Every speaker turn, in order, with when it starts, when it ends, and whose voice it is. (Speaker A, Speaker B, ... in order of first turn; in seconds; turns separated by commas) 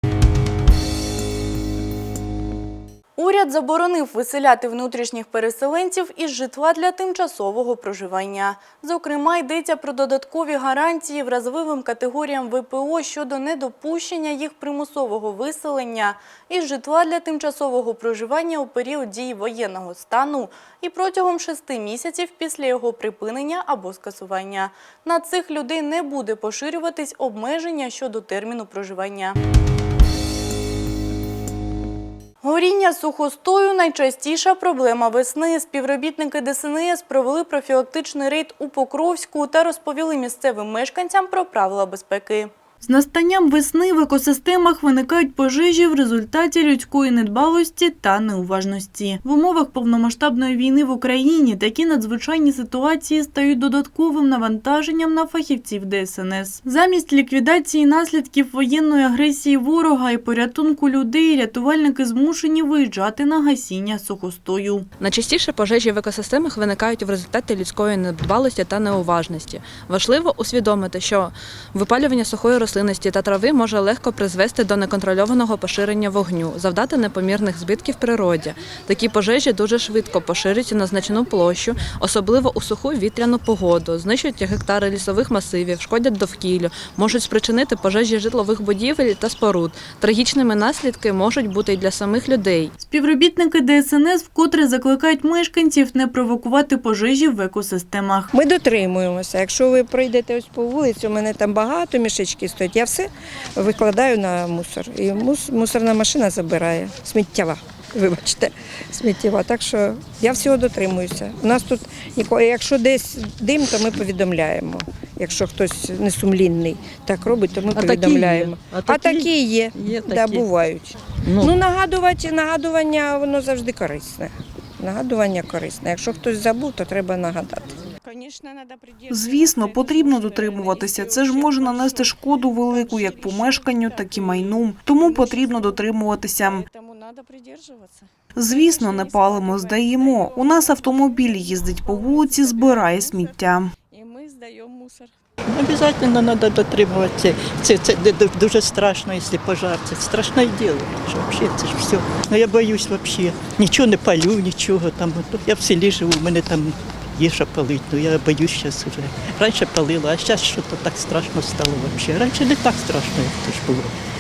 Speaker A: 3.2-29.4, Speaker A: 32.4-64.9, Speaker B: 65.0-92.7, Speaker A: 92.8-98.3, Speaker C: 98.3-127.8, Speaker B: 117.7-120.5, Speaker B: 121.2-121.6, Speaker D: 129.1-136.7, Speaker D: 138.4-143.7, Speaker E: 145.5-163.9